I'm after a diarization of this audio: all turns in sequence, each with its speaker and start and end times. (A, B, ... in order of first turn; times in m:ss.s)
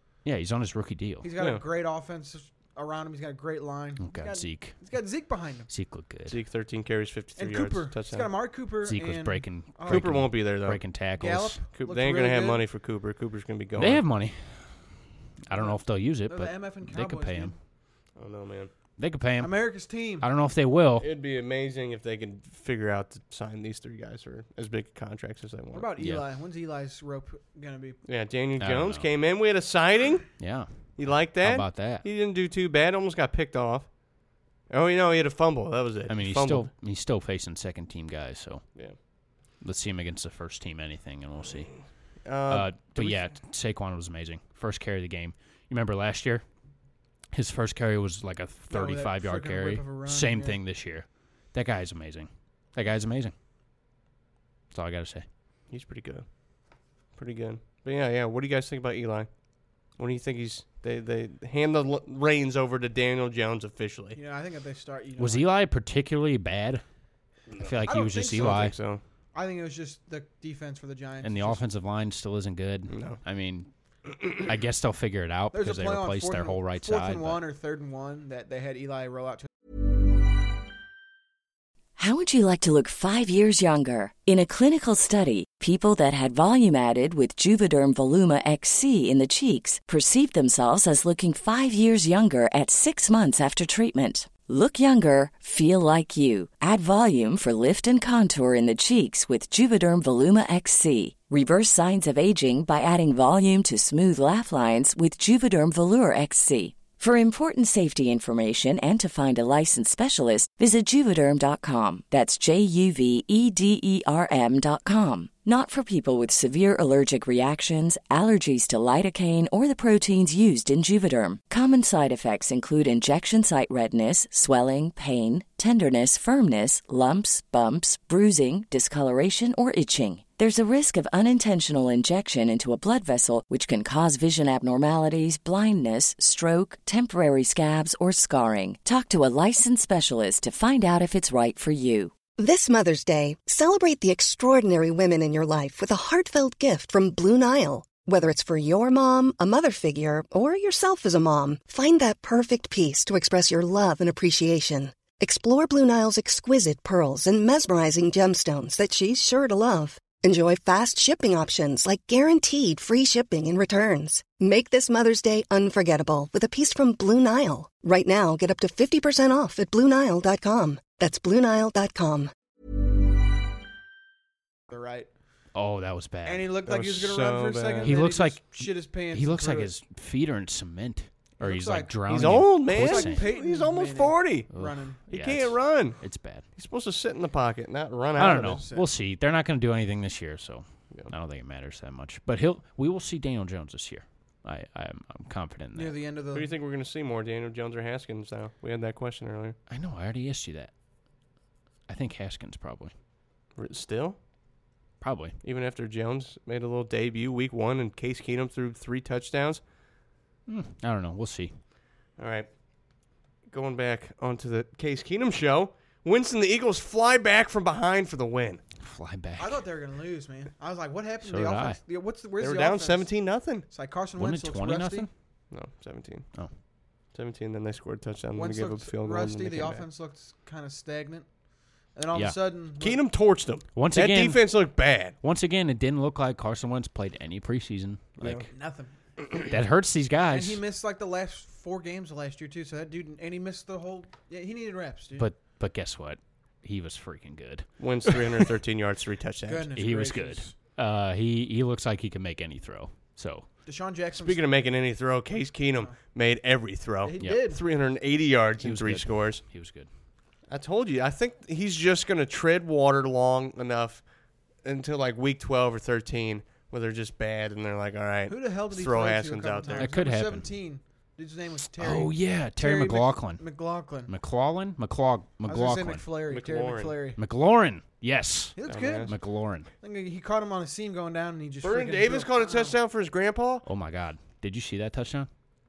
0:00.2-0:01.3 A
0:01.2-0:05.7 B
0:01.4-0:01.6 C
0:04.0-0:04.8 A
0:05.7-0:06.4 A
0:06.3-0:08.3 C
0:07.4-0:10.3 B
0:08.9-0:11.6 A
0:09.9-0:10.8 C
0:11.2-0:12.6 B
0:11.8-0:14.0 C
0:13.8-0:14.8 A
0:15.5-0:17.5 A
0:15.5-0:17.6 B
0:18.2-0:18.7 C
0:19.0-0:19.6 A
0:19.4-0:20.3 B
0:20.2-0:21.1 A
0:21.0-0:25.9 C
0:25.7-0:28.0 B
0:26.0-0:26.3 A
0:28.0-0:30.3 C
0:28.6-0:29.1 A
0:30.4-0:30.7 A
0:31.0-0:33.9 C
0:31.2-0:32.0 A
0:34.7-0:36.7 C
0:36.1-0:38.6 A
0:39.6-0:41.7 A
0:42.2-0:43.3 C
0:42.5-0:46.4 A
0:47.3-0:53.3 A
0:48.7-0:50.6 B
0:54.7-0:55.3 A
0:55.7-0:56.3 C
0:57.2-0:59.3 C
1:00.0-1:04.2 C
1:04.1-1:05.5 B
1:05.2-1:06.8 A
1:07.6-1:08.8 A
1:07.8-1:08.8 B
1:08.3-1:09.0 C
1:09.3-1:11.6 B
1:11.2-1:13.7 A
1:12.9-1:13.2 C
1:14.4-1:17.4 A
1:15.5-1:19.5 B
1:22.0-2:22.2 D
2:22.4-2:52.3 E
2:54.7-2:55.1 B
2:55.5-2:56.5 A
2:56.2-2:59.7 B
2:56.7-2:58.0 C
2:57.8-3:03.3 A
3:01.4-3:05.0 B
3:02.1-3:04.5 C
3:04.5-3:06.4 A
3:05.1-3:06.0 C
3:06.6-3:08.6 C
3:08.2-3:16.0 A
3:08.2-3:08.9 B
3:15.7-3:16.5 B
3:16.3-3:19.6 C
3:19.7-3:20.7 A
3:21.9-3:22.9 A
3:23.6-3:24.2 C
3:25.0-3:25.4 A
3:25.4-3:29.6 C
3:30.5-3:31.5 A
3:32.2-3:32.5 C
3:33.5-3:38.6 C
3:38.8-3:39.6 A
3:39.4-3:45.1 B
3:41.2-3:41.8 A
3:42.4-3:43.7 C
3:44.2-3:45.1 A
3:45.5-3:46.3 C
3:47.1-3:49.9 C
3:48.4-3:51.3 B
3:51.9-3:53.0 B
3:52.8-3:55.2 C
3:53.8-3:54.6 A
3:55.2-3:58.5 A
3:58.2-3:58.5 C
3:58.5-3:58.9 B
3:59.4-4:00.6 A
4:00.3-4:05.3 B
4:05.2-4:08.4 A
4:07.8-4:09.7 C
4:09.5-4:10.5 B
4:09.8-4:13.5 A
4:13.7-4:14.4 B
4:14.2-4:19.4 C
4:17.0-4:17.6 B
4:18.6-4:19.9 A
4:20.5-4:24.0 C
4:24.6-4:29.9 C
4:28.3-4:34.1 B
4:29.7-4:30.5 A
4:31.8-4:33.4 A
4:34.1-4:36.0 A
4:35.5-4:37.2 B
4:36.3-4:37.0 C
4:37.2-4:39.7 A
4:38.6-4:39.2 B
4:38.7-4:39.1 C
4:39.8-4:42.8 B
4:41.6-4:43.6 C
4:43.6-4:45.3 A